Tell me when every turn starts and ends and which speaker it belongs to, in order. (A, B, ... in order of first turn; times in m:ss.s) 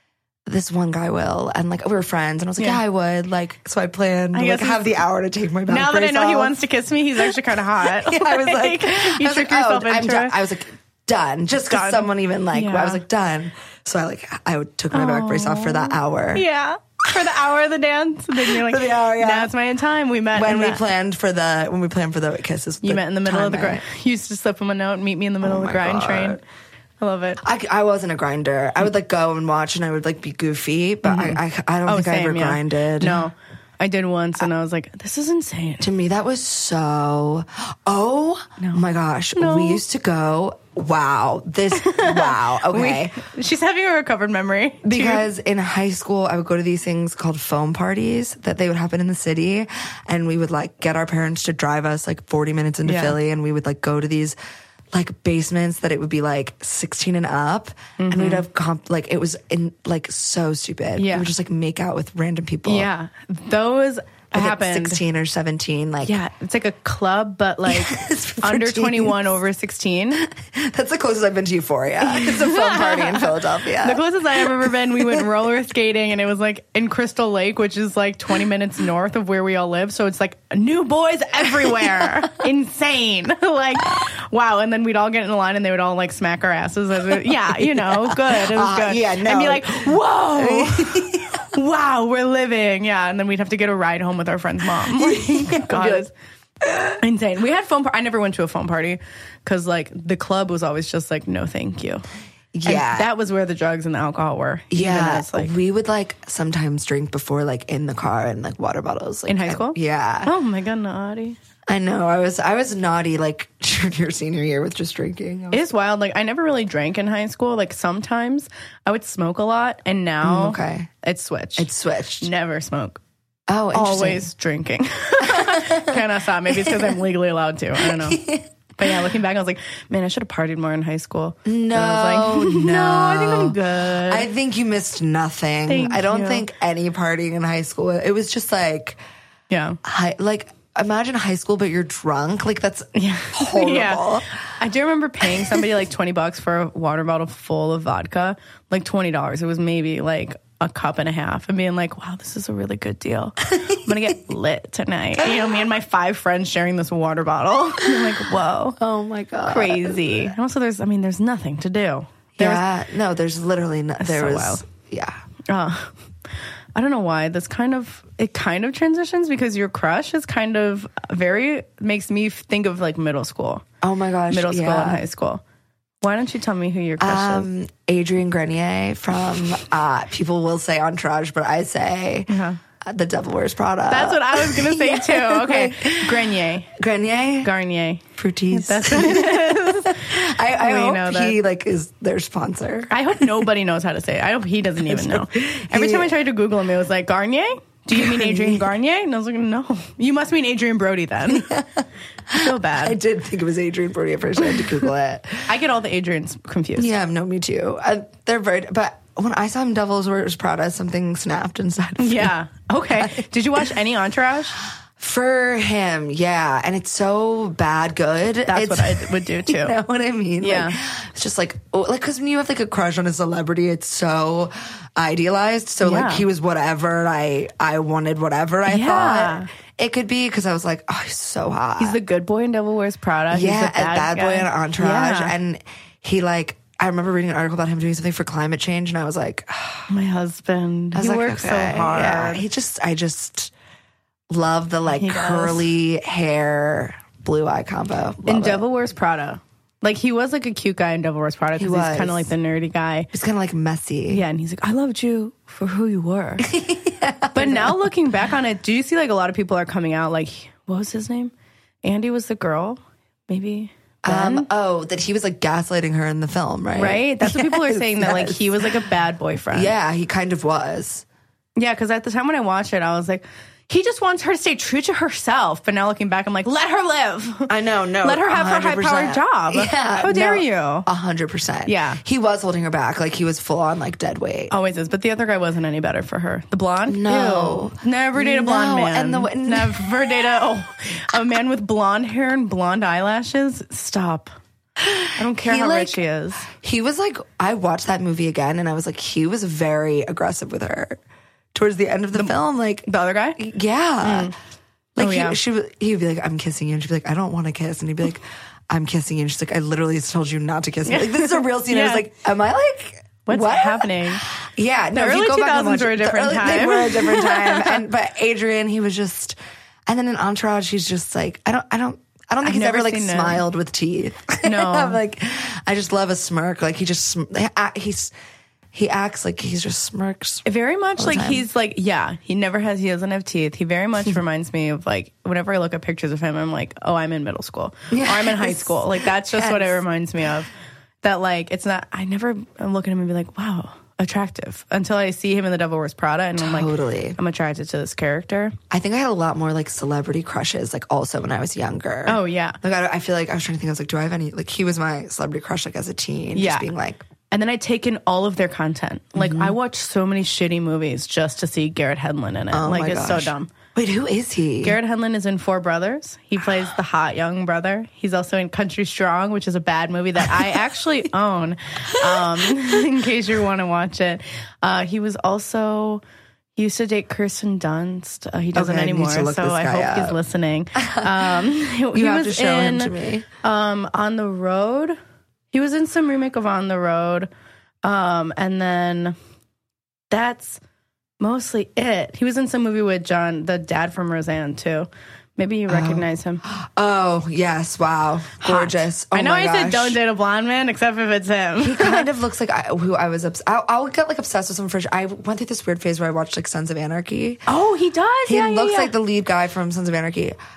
0:00.4-0:06.6 A
0:04.3-0:04.9 B
0:05.7-0:10.4 B
0:07.2-0:16.4 A
0:11.7-0:13.0 B
0:14.9-0:20.8 B
0:18.3-0:19.5 A
0:20.3-0:23.8 A
0:22.8-0:26.4 B
0:25.4-0:26.4 A
0:27.0-0:27.4 B
0:27.4-0:33.2 A
0:31.0-0:35.9 B
0:35.8-0:43.2 A
0:39.3-0:39.8 B
0:41.8-0:45.3 B
0:44.8-0:54.4 A
0:52.8-0:53.2 B
0:54.9-1:02.9 A
0:58.0-0:58.4 B
1:01.0-1:01.3 B
1:02.6-1:05.0 B
1:04.3-1:06.2 A
1:06.0-1:10.3 B
1:07.7-1:09.3 A
1:10.2-1:15.2 A
1:12.0-1:36.1 B
1:27.4-1:31.4 A
1:34.8-1:36.1 A
1:36.6-1:37.0 A
1:37.0-1:42.0 B
1:42.5-1:43.1 A
1:42.6-1:45.5 B
1:44.7-1:50.3 A
1:49.3-1:51.4 B
1:51.7-1:55.7 A
1:55.5-2:01.7 B
2:00.2-2:00.9 A
2:01.6-2:02.3 A
2:02.2-2:03.0 B
2:03.5-2:04.3 A
2:03.7-2:08.2 B
2:05.2-2:06.9 A
2:07.8-2:08.5 A
2:08.8-2:14.3 B
2:11.4-2:19.0 A
2:15.7-2:16.4 B
2:19.5-2:19.8 B
2:19.8-2:24.2 A
2:22.9-2:38.8 B
2:25.3-2:25.6 A
2:38.8-2:40.3 A
2:39.4-2:42.7 B
2:42.4-2:45.2 A
2:44.0-2:44.6 B
2:45.5-2:46.0 B
2:46.7-2:53.6 B
2:53.8-2:55.0 A
2:54.3-2:55.4 B
2:56.0-2:57.5 B
2:57.0-3:02.3 A
3:02.3-3:02.6 B
3:02.8-3:07.5 A
3:03.9-3:06.7 B
3:07.4-3:11.4 B
3:08.2-3:13.3 A
3:12.9-3:21.6 B
3:14.8-3:16.2 A
3:17.9-3:18.6 A
3:21.3-3:25.5 A
3:22.3-3:23.0 B
3:25.5-3:26.9 B
3:26.8-3:32.3 A
3:32.0-3:34.6 B
3:32.9-3:33.2 A
3:35.0-3:52.0 A
3:38.5-3:39.8 B
3:40.4-3:40.8 B
3:45.8-3:46.2 B
3:48.7-3:49.5 B
3:51.8-3:55.4 B
3:53.3-3:59.9 A
3:59.9-4:02.4 B
4:00.9-4:03.5 A
4:04.3-4:08.6 A
4:04.9-4:05.7 B
4:08.2-4:13.1 B
4:11.6-4:12.3 A
4:13.1-4:14.2 A
4:14.1-4:16.5 B
4:16.4-4:17.9 A
4:17.3-4:21.3 B
4:21.8-4:24.5 B
4:24.0-4:28.7 A
4:26.8-4:29.7 B
4:29.5-4:31.0 A
4:31.6-4:37.5 B
4:37.5-4:44.5 A
4:38.0-4:40.9 B
4:41.6-4:42.0 B
4:44.5-4:54.3 B
4:46.9-4:50.2 A
4:54.8-5:01.0 A
4:55.2-4:56.5 B
5:01.5-5:04.3 A
5:02.1-5:03.4 B
5:04.0-5:04.3 B
5:05.0-5:28.1 A
5:05.0-5:05.4 B
5:10.8-5:12.1 B
5:13.2-5:14.2 B
5:14.9-5:17.8 B
5:22.4-5:23.4 B
5:24.4-5:25.0 B
5:28.7-5:30.4 A
5:30.4-5:40.5 B
5:31.0-5:31.4 A
5:37.9-5:39.8 A
5:41.0-5:48.6 B
5:46.4-5:47.2 A
5:48.7-5:57.0 A
5:52.0-5:52.6 B
5:56.3-5:56.7 B
5:57.3-6:03.5 B
5:59.2-5:59.6 A
6:02.5-6:04.8 A
6:04.6-6:16.0 B
6:16.6-6:25.0 B
6:18.5-6:20.2 A
6:20.8-6:21.2 A
6:21.9-6:23.2 A
6:25.5-6:27.3 B
6:27.8-6:29.2 B
6:30.1-6:30.6 B
6:31.2-6:36.4 B
6:35.7-6:40.0 A
6:38.4-6:42.1 B
6:41.6-6:47.4 A
6:47.5-6:48.9 B
6:48.2-6:50.4 A